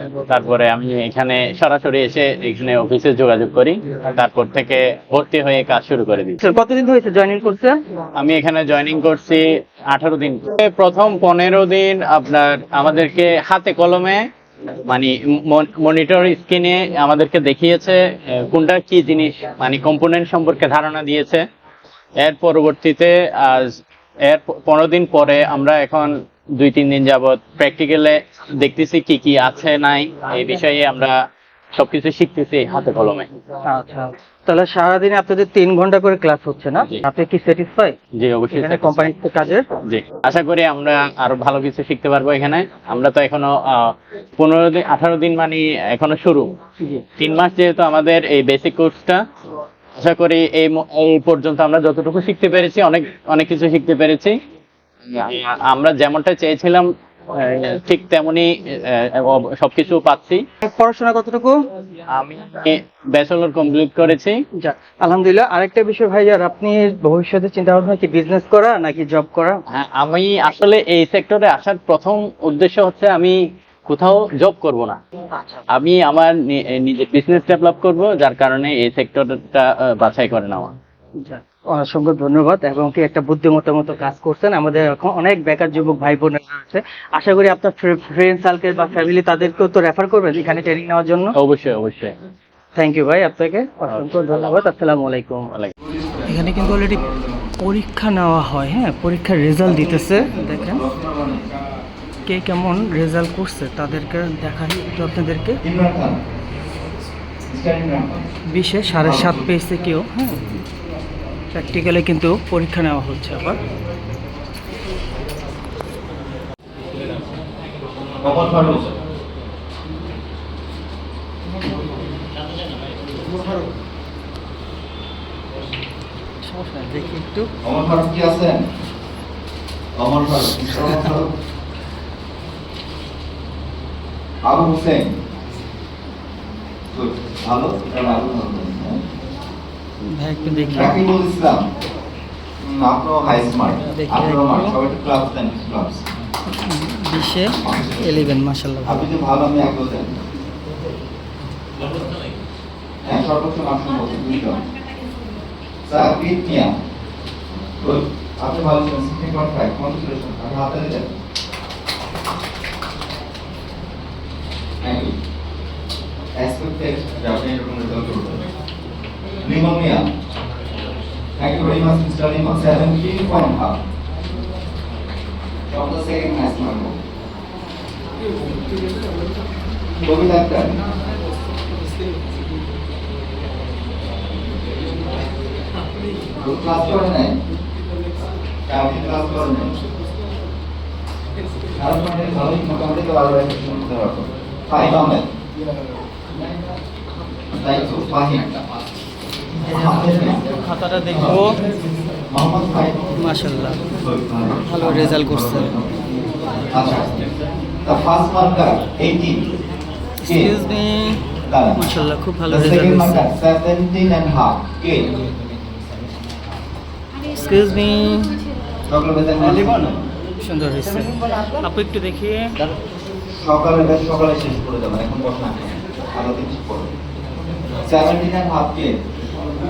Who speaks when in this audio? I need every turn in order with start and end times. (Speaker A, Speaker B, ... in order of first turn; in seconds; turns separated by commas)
Speaker A: 0.3-6.4, Speaker B: 6.4-7.8, Speaker A: 8.2-14.3, Speaker A: 14.9-21.4, Speaker A: 22.2-31.1, Speaker A: 31.7-33.3, Speaker B: 33.7-38.0, Speaker A: 38.2-39.1, Speaker B: 38.5-39.6, Speaker A: 39.9-46.5, Speaker A: 47.2-49.2, Speaker A: 50.0-54.3, Speaker A: 55.1-60.4, Speaker B: 60.6-61.5, Speaker A: 62.1-64.4, Speaker B: 64.6-69.6, Speaker A: 69.7-73.3, Speaker A: 73.9-75.0, Speaker A: 75.7-80.7, Speaker B: 81.2-91.3, Speaker A: 91.3-92.1, Speaker B: 92.7-95.5, Speaker A: 93.9-94.2, Speaker C: 95.8-97.5, Speaker B: 96.3-97.0, Speaker B: 97.6-100.8, Speaker C: 99.6-101.5, Speaker B: 102.2-105.6, Speaker C: 105.6-106.2, Speaker C: 107.5-108.2, Speaker B: 108.5-110.5, Speaker C: 109.0-109.5, Speaker B: 111.5-113.6, Speaker C: 118.2-118.9, Speaker B: 126.4-127.5, Speaker C: 127.6-128.6, Speaker C: 129.9-131.3, Speaker C: 134.4-135.1, Speaker C: 136.9-139.0, Speaker B: 140.1-141.0, Speaker C: 140.7-141.6, Speaker C: 142.6-146.0, Speaker B: 143.9-144.8, Speaker B: 146.5-149.1, Speaker C: 147.6-148.3, Speaker C: 148.8-150.2, Speaker C: 153.0-154.6, Speaker C: 155.8-156.7, Speaker C: 157.8-161.1, Speaker C: 164.8-165.1, Speaker C: 166.3-168.4, Speaker C: 169.4-170.0, Speaker C: 171.4-173.8, Speaker C: 175.7-176.9, Speaker C: 180.0-180.7, Speaker C: 186.4-187.4, Speaker C: 188.7-189.7, Speaker C: 191.8-195.3, Speaker C: 196.4-196.7, Speaker C: 197.5-198.5, Speaker B: 199.7-201.6, Speaker C: 199.7-200.4, Speaker C: 201.1-201.4, Speaker C: 202.3-203.2, Speaker B: 203.2-203.8, Speaker C: 203.8-206.0, Speaker B: 204.6-205.8, Speaker C: 206.6-207.2, Speaker C: 207.8-209.4, Speaker C: 210.2-210.5, Speaker B: 210.3-211.2, Speaker C: 211.5-211.8, Speaker B: 211.8-213.3, Speaker C: 212.5-215.1, Speaker B: 217.3-218.4, Speaker C: 218.9-219.9, Speaker B: 219.5-219.8, Speaker B: 220.4-222.5, Speaker C: 223.4-226.9, Speaker C: 227.8-229.0